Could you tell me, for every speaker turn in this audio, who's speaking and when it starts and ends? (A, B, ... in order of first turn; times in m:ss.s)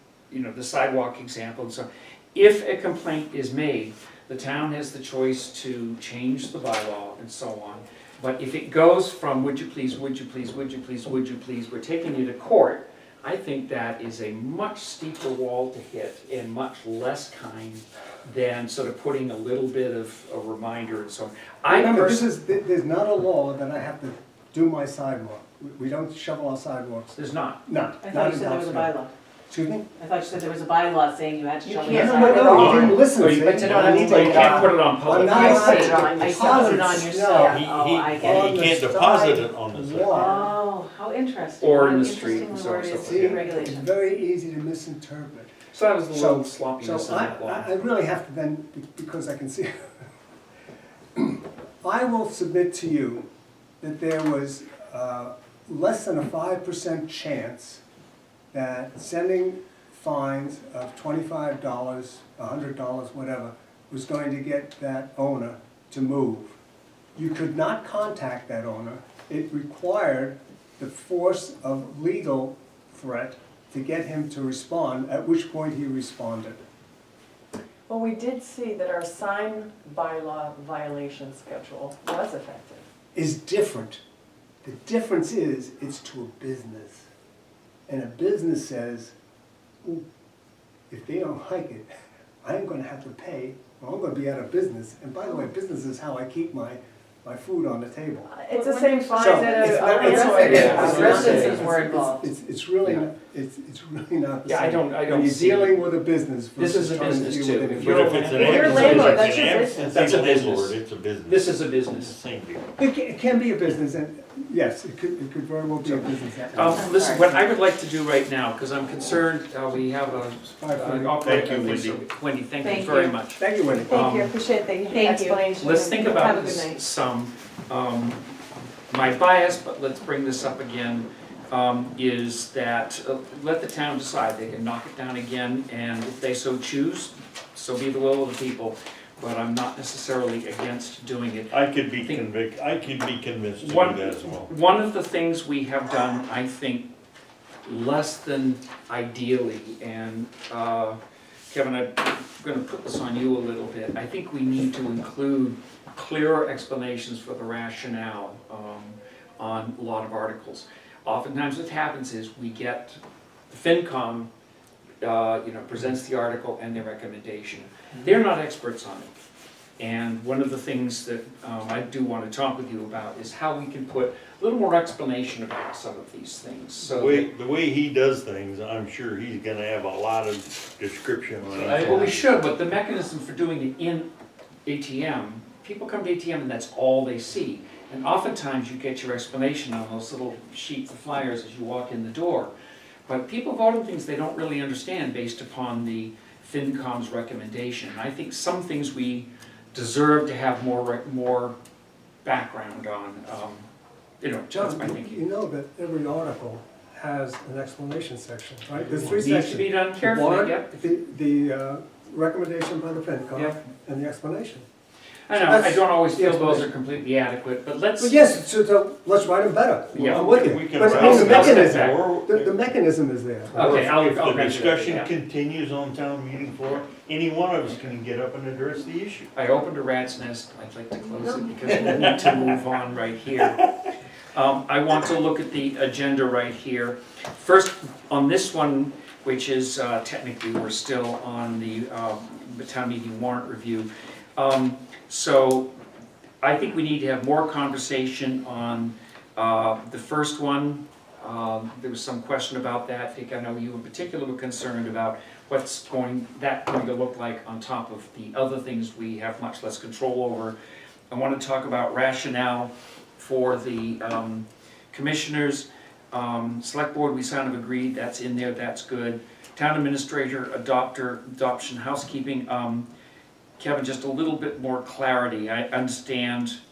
0:00.3-0:22.3 A
0:21.7-0:28.9 B
0:27.2-0:27.6 A
0:28.0-0:29.1 C
0:29.5-0:29.9 B
0:30.0-0:33.0 C
0:31.6-0:37.6 B
0:31.9-0:33.0 D
0:32.4-0:37.0 A
0:33.5-0:34.7 E
0:35.1-0:38.5 C
0:37.3-0:40.1 E
0:38.2-0:40.6 B
0:40.1-0:43.9 C
0:41.6-0:43.4 A
0:43.0-0:45.5 B
0:45.7-0:47.7 A
0:46.1-0:49.7 B
0:51.2-0:53.2 B
0:53.8-0:57.8 B
0:58.5-1:06.6 B
1:07.2-1:16.6 B
1:17.9-1:22.8 D
1:23.1-1:24.0 B
1:24.6-1:27.1 B
1:27.9-1:29.1 B
1:30.9-1:31.9 B
1:32.4-1:38.3 B
1:38.3-1:42.2 D
1:39.2-1:49.1 B
1:40.0-1:42.1 C
1:40.4-1:41.7 A
1:44.5-1:45.9 A
1:46.6-1:49.3 A
1:47.8-1:52.7 E
1:48.4-1:50.2 D
1:49.8-1:52.2 A
1:52.8-1:57.0 B
1:55.8-2:04.3 A
1:56.8-1:57.2 C
2:00.6-2:01.4 B
2:01.2-2:02.0 E
2:02.6-2:03.1 C
2:03.4-2:04.1 B
2:03.8-2:06.8 D
2:04.9-2:05.4 C
2:05.6-2:08.2 A
2:08.9-2:22.3 A
2:21.5-2:24.5 E
2:23.6-2:26.9 A
2:27.6-2:31.0 A
2:31.5-2:44.3 A
2:45.0-2:49.1 A
2:49.8-2:57.3 A
2:56.8-3:02.3 E
3:01.5-3:04.1 A
3:04.6-3:12.5 A
3:13.1-3:21.6 A
3:22.2-3:23.6 A
3:24.2-3:25.2 A
3:24.5-3:34.6 B
3:29.1-3:30.9 A
3:35.3-3:38.4 A
3:35.3-3:36.7 B
3:38.0-3:43.9 B
3:39.9-3:42.0 A
3:40.0-3:42.6 E
3:43.5-3:49.3 E
3:43.6-3:45.1 A
3:49.3-3:53.7 A
3:51.7-3:52.5 E
3:54.3-4:05.7 A
4:06.4-4:20.6 A
4:21.1-4:32.9 A
4:33.6-4:36.6 A